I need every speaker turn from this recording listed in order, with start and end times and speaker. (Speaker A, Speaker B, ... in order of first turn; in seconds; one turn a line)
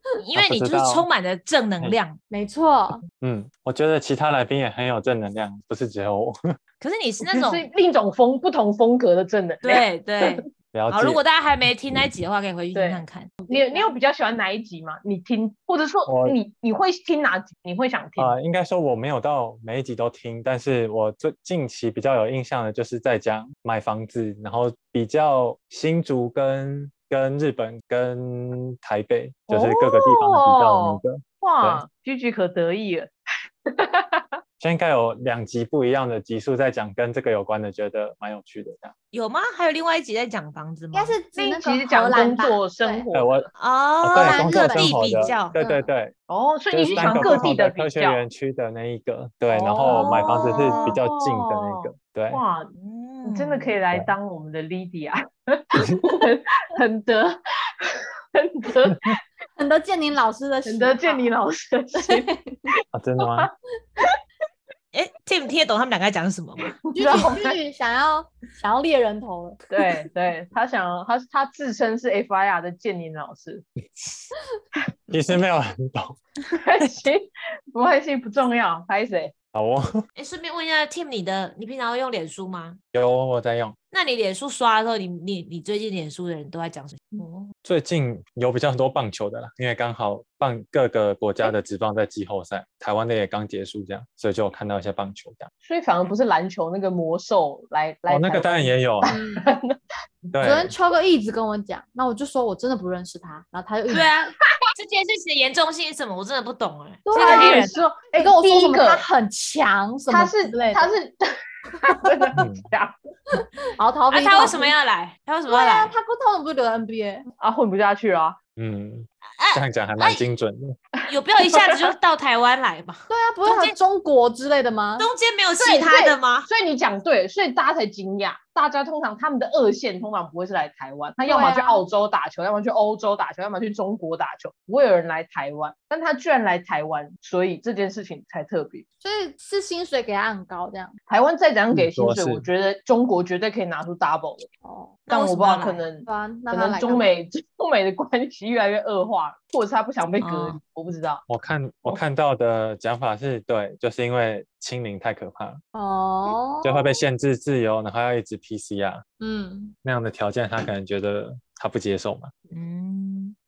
Speaker A: 0.2-2.2
Speaker B: 0.3-1.1
Speaker C: 2.3-3.0
Speaker B: 3.2-6.4
Speaker A: 6.8-7.6
Speaker D: 7.2-10.4
Speaker A: 9.6-13.3
Speaker B: 10.7-11.2
Speaker D: 12.7-18.3
Speaker C: 13.4-13.9
Speaker B: 16.1-16.4
Speaker B: 18.2-31.8
Speaker D: 29.5-33.1
Speaker D: 33.8-34.2
Speaker B: 34.6-38.9
Speaker A: 39.1-41.1
Speaker C: 40.9-43.0
Speaker D: 41.4-43.5
Speaker B: 43.1-43.5
Speaker A: 43.6-45.5
Speaker B: 44.0-46.1
Speaker C: 44.1-45.9
Speaker D: 46.3-48.2
Speaker B: 46.7-52.4
Speaker A: 47.0-47.5
Speaker D: 49.5-52.7
Speaker A: 49.9-51.0
Speaker A: 52.8-53.8
Speaker D: 53.2-57.4
Speaker D: 58.3-59.1
Speaker C: 59.5-61.3
Speaker D: 60.6-62.3
Speaker C: 61.9-62.6
Speaker B: 62.9-63.5
Speaker D: 63.2-63.5
Speaker A: 64.9-66.7
Speaker D: 66.9-67.5
Speaker C: 66.9-69.6
Speaker D: 69.7-73.6
Speaker B: 73.8-74.3
Speaker B: 75.1-76.2
Speaker D: 76.6-79.3
Speaker B: 79.5-80.0
Speaker A: 80.2-82.8
Speaker B: 82.9-83.8
Speaker A: 83.9-87.5
Speaker B: 87.6-95.5
Speaker D: 95.6-99.7
Speaker B: 98.1-99.1
Speaker C: 99.1-99.5
Speaker B: 100.3-100.7
Speaker C: 100.4-104.3
Speaker A: 103.9-104.2
Speaker A: 104.7-107.7
Speaker C: 107.0-110.9
Speaker D: 107.2-109.0
Speaker D: 110.1-111.2
Speaker D: 111.8-112.9
Speaker B: 112.3-112.6
Speaker C: 113.8-114.7
Speaker A: 114.1-115.9
Speaker C: 115.5-117.2
Speaker D: 117.4-118.4
Speaker B: 118.5-120.8
Speaker A: 119.4-120.2
Speaker D: 121.0-121.7
Speaker A: 121.1-123.8
Speaker C: 123.1-125.1
Speaker A: 125.0-126.5
Speaker D: 125.6-138.8
Speaker C: 131.2-131.8
Speaker C: 139.0-140.9
Speaker D: 141.1-144.5
Speaker B: 141.7-142.4
Speaker C: 144.6-145.0
Speaker D: 145.1-151.2
Speaker A: 145.1-145.8
Speaker C: 146.0-147.1
Speaker A: 150.2-150.6
Speaker B: 151.3-155.6
Speaker C: 155.7-157.0
Speaker B: 156.6-159.0
Speaker C: 159.2-159.7
Speaker B: 159.8-162.3
Speaker A: 162.5-163.3